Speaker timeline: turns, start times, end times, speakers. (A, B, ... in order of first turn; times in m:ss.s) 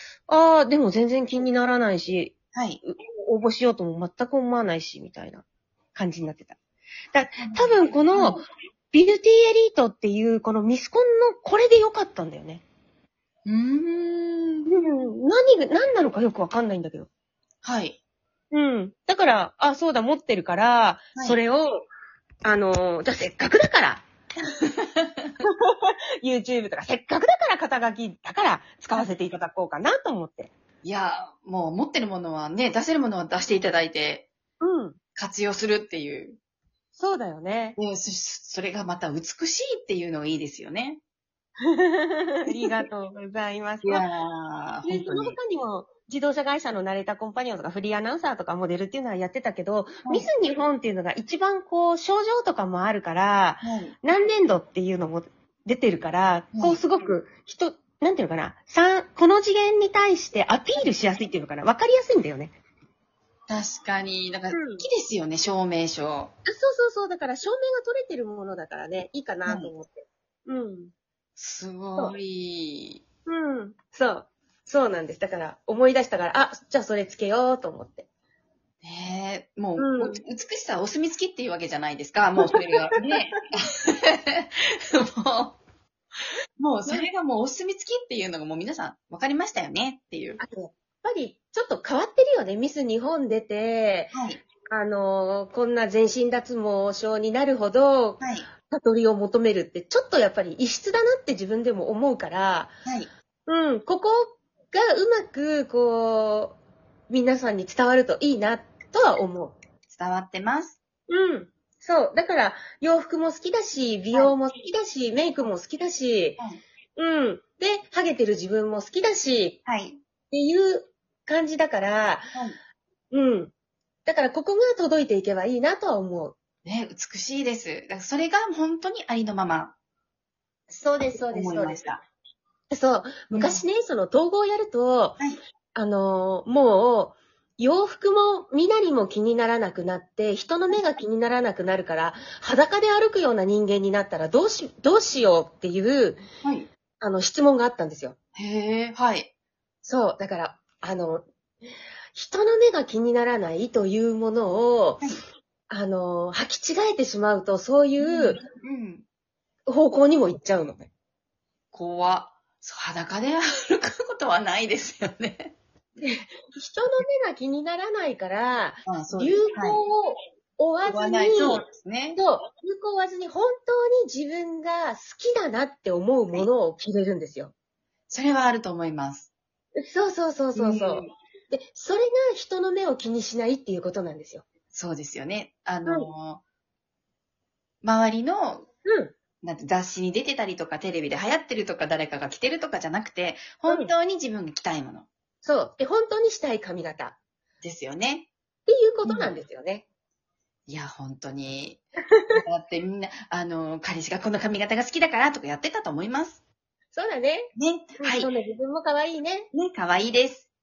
0:00.3-0:05.4 A
0:02.5-0:02.8 B
0:05.9-0:06.6 A
0:07.1-0:08.4 A
0:07.4-0:08.4 B
0:08.9-0:12.6 A
0:13.4-0:14.7 B
0:14.7-0:17.1 A
0:17.6-0:18.0 B
0:18.5-0:21.8 A
0:22.4-0:24.0 A
0:24.5-0:25.3 B
0:25.4-0:30.5 A
0:30.8-0:34.3 B
0:34.6-0:35.0 A
0:35.1-0:36.4 B
0:37.0-0:37.8 A
0:37.8-0:41.0 B
0:41.6-0:44.0 A
0:43.8-0:45.4 B
0:44.8-1:02.5 A
0:53.6-0:53.9 B
0:56.5-0:56.8 B
1:03.5-1:06.3 B
1:04.5-1:04.8 A
1:06.4-1:10.9 A
1:11.4-1:13.0 B
1:13.3-1:18.1 A
1:18.8-1:25.6 B
1:19.8-1:20.2 A
1:22.4-1:23.3 A
1:26.6-1:30.4 B
1:30.4-1:34.1 A
1:34.1-1:34.4 B
1:34.7-1:42.7 A
1:38.2-1:38.5 B
1:43.5-1:46.6 A
1:47.1-1:49.6 A
1:49.9-1:50.8 B
1:51.1-1:56.4 A
1:57.0-1:59.6 A
1:59.6-2:00.0 B
2:00.3-2:02.3 A
2:03.1-2:03.5 A
2:04.0-2:06.3 A
2:06.6-2:09.7 B
2:10.7-2:11.8 A
2:11.3-2:12.0 B
2:12.7-2:15.2 A
2:13.3-2:13.6 B
2:15.8-2:26.2 A
2:26.4-2:26.7 B
2:27.0-2:28.2 A
2:28.4-2:29.3 B
2:29.8-2:31.2 A
2:32.1-2:35.1 A
2:35.7-2:38.4 A
2:38.0-2:39.0 B
2:39.7-2:40.9 A
2:41.7-2:45.5 B
2:46.0-2:51.6 A
2:48.8-2:49.8 B
2:50.9-2:52.2 B
2:52.2-2:57.5 A
2:58.1-2:59.3 B
2:59.8-3:04.4 A
3:00.6-3:01.1 B
3:04.7-3:06.4 B
3:07.8-3:08.7 B
3:08.8-3:09.1 A
3:09.4-3:15.1 B
3:15.4-3:17.2 A
3:17.6-3:18.3 B
3:18.7-3:19.8 A
3:19.0-3:19.3 B
3:20.7-3:26.4 B
3:22.1-3:22.4 A
3:26.9-3:27.5 A
3:27.6-3:28.3 B
3:28.0-3:29.5 A
3:29.5-3:30.5 B